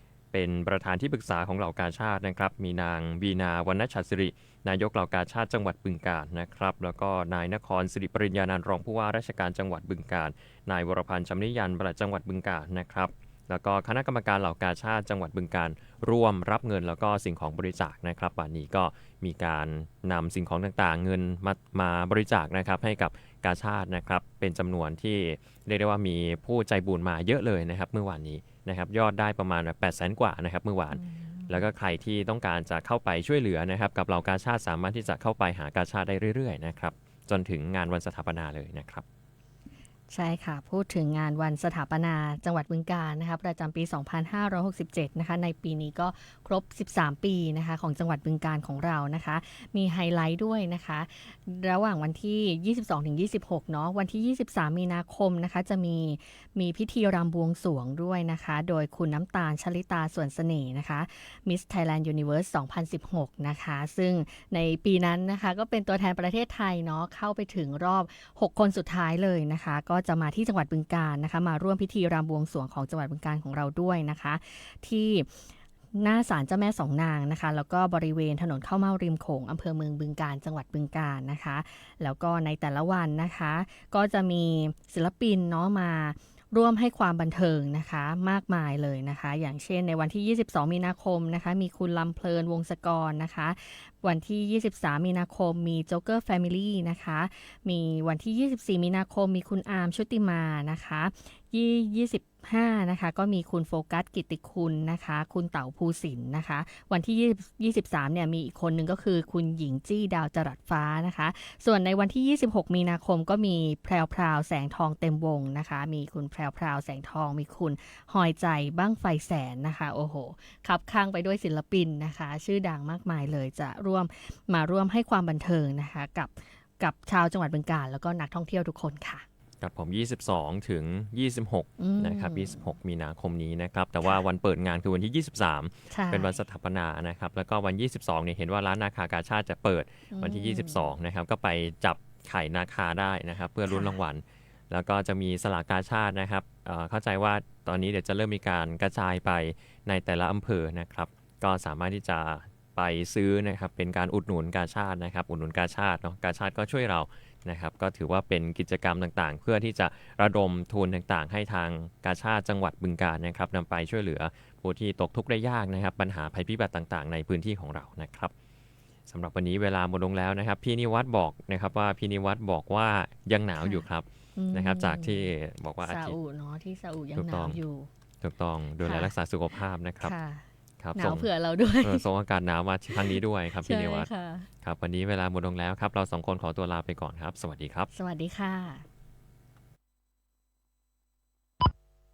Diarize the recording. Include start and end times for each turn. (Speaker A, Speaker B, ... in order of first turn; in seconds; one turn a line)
Speaker A: 0.3-39.0
Speaker B: 30.9-31.6
Speaker B: 40.1-75.3
Speaker B: 75.9-129.2
Speaker A: 129.6-168.3
Speaker B: 131.8-132.6
Speaker B: 135.9-136.4
Speaker B: 140.1-140.9
Speaker B: 143.7-143.9
Speaker A: 169.1-176.2
Speaker B: 173.6-173.8
Speaker B: 174.4-175.3
Speaker B: 175.8-177.9
Speaker A: 177.1-177.6
Speaker A: 178.2-180.1
Speaker B: 178.8-179.1
Speaker B: 180.0-182.1
Speaker A: 180.8-181.3
Speaker A: 181.8-184.1
Speaker B: 183.1-184.5
Speaker A: 184.6-187.9
Speaker B: 187.9-188.9